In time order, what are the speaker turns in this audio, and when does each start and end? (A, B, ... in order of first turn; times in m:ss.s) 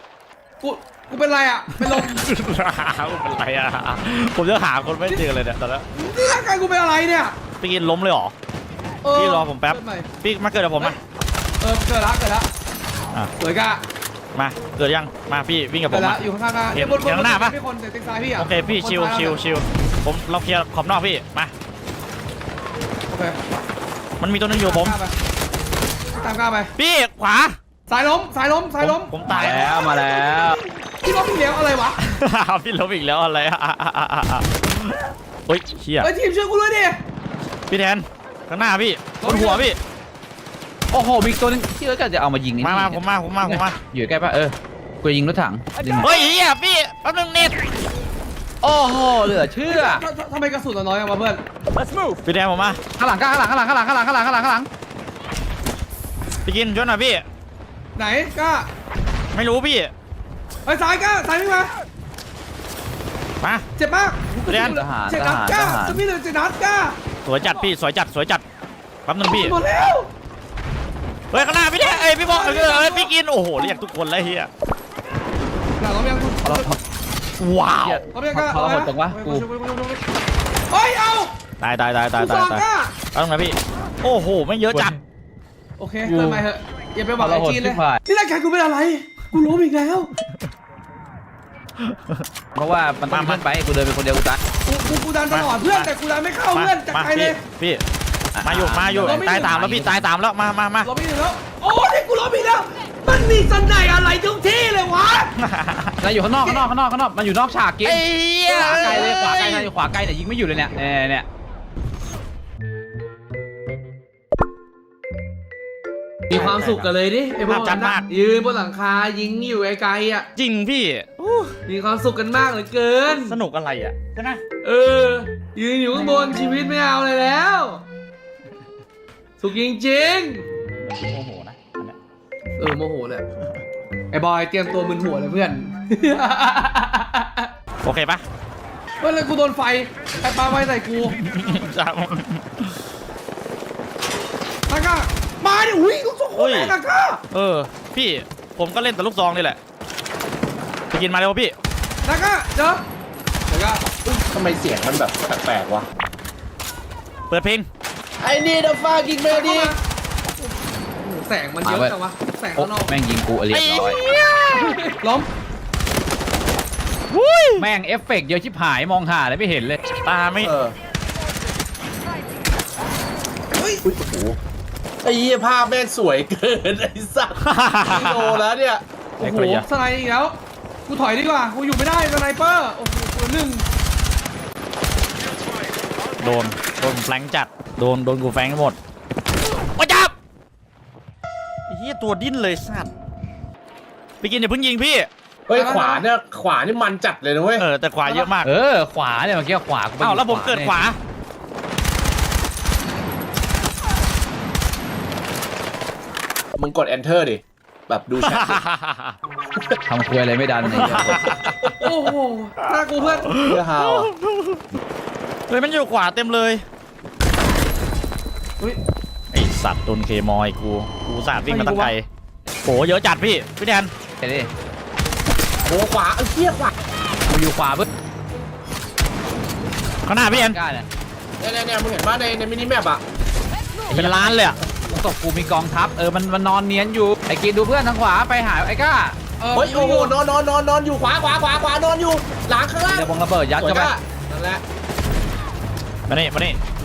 0:00.6-0:02.2 A
0:01.8-0:05.8 B
0:05.9-0:07.4 A
0:07.6-0:08.3 B
0:09.0-0:10.1 A
0:09.1-0:11.0 B
0:11.6-0:12.5 A
0:13.4-0:13.8 A
0:14.3-0:16.2 B
0:15.9-0:19.4 A
0:16.7-0:17.6 B
0:18.4-0:21.5 B
0:23.1-0:23.4 A
0:24.2-0:25.0 B
0:24.5-0:25.1 A
0:26.1-0:26.7 A
0:26.8-0:27.6 B
0:27.9-0:29.1 A
0:28.8-0:29.8 B
0:29.3-0:30.6 C
0:29.7-0:32.0 A
0:32.0-0:36.1 B
0:36.0-0:37.0 A
0:37.7-0:39.8 B
0:39.2-0:39.6 A
0:40.9-0:46.2 C
0:42.6-0:43.8 B
0:46.0-0:47.6 B
0:48.6-0:50.0 C
0:49.6-0:51.4 A
0:52.2-0:52.8 B
0:53.0-0:54.7 C
0:56.4-0:57.2 B
0:58.0-0:58.7 A
0:59.3-0:59.9 B
1:00.6-1:01.7 A
1:03.4-1:03.6 B
1:03.8-1:07.0 A
1:04.5-1:04.8 B
1:04.6-1:06.0 C
1:07.2-1:08.4 B
1:09.0-1:09.6 B
1:09.3-1:10.1 A
1:11.3-1:14.5 B
1:12.0-1:13.1 A
1:15.8-1:16.7 A
1:16.4-1:16.8 C
1:17.4-1:18.1 B
1:17.8-1:19.4 C
1:18.1-1:20.0 A
1:20.7-1:21.3 A
1:21.6-1:25.0 B
1:22.2-1:22.9 A
1:24.7-1:25.0 C
1:25.8-1:30.1 A
1:26.0-1:26.4 C
1:27.2-1:28.0 C
1:31.8-1:32.2 B
1:32.6-1:34.4 C
1:33.1-1:33.4 B
1:34.6-1:37.4 A
1:35.3-1:35.9 B
1:36.5-1:37.8 B
1:38.3-1:40.0 C
1:38.4-1:40.9 B
1:39.0-1:39.6 A
1:40.8-1:45.3 A
1:45.4-1:46.0 B
1:46.0-1:51.2 C
1:46.4-1:46.6 A
1:47.8-1:49.7 B
1:56.3-2:00.3 A
1:56.3-1:56.9 B
1:57.4-1:58.0 B
2:00.4-2:01.6 B
2:01.7-2:03.4 A
2:03.1-2:04.4 B
2:04.6-2:07.8 A
2:09.4-2:10.4 A
2:10.6-2:12.0 B
2:12.6-2:13.2 A
2:14.1-2:17.5 A
2:17.8-2:18.2 B
2:19.0-2:21.2 A
2:21.0-2:22.8 B
2:24.7-2:27.2 A
2:26.4-2:26.7 B
2:27.3-2:29.6 B
2:30.9-2:31.6 B
2:32.0-2:32.8 A
2:33.5-2:33.8 A
2:34.0-2:35.8 D
2:37.3-2:37.7 B
2:38.2-2:39.7 D
2:39.3-2:39.8 A
2:41.0-2:42.9 A
2:41.6-2:42.0 C
2:42.6-2:44.0 C
2:43.5-2:44.8 B
2:44.5-2:45.3 A
2:47.1-2:47.7 B
2:47.6-2:49.8 C
2:50.0-2:50.5 B
2:50.4-2:50.8 D
2:53.8-2:54.4 D
2:55.0-2:58.8 D
2:57.4-2:58.4 B
2:59.2-3:03.6 A
2:59.2-2:59.6 C
3:06.2-3:08.8 B
3:09.5-3:10.1 B
3:11.7-3:12.9 B
3:14.2-3:15.1 B
3:15.5-3:17.6 D
3:15.5-3:16.0 A
3:17.6-3:18.5 B
3:18.4-3:20.7 C
3:20.0-3:21.0 B
3:26.6-3:28.6 D
3:28.2-3:29.2 B
3:29.8-3:31.4 C
3:30.6-3:31.7 B
3:31.8-3:33.3 A
3:33.0-3:34.1 D
3:33.2-3:34.8 B
3:35.5-3:36.6 B
3:39.3-3:42.1 B
3:41.5-3:41.9 A
3:42.6-3:43.9 B
3:44.2-3:44.5 C
3:45.7-3:46.7 D
3:47.3-3:47.9 C
3:50.0-3:50.6 B
3:50.3-3:50.8 C
3:51.4-3:53.0 D
3:53.9-3:54.2 C
3:53.9-3:54.6 B
3:54.9-3:59.2 C
3:59.4-4:00.1 A
3:59.5-4:04.6 D
4:02.8-4:03.9 C
4:06.1-4:06.6 B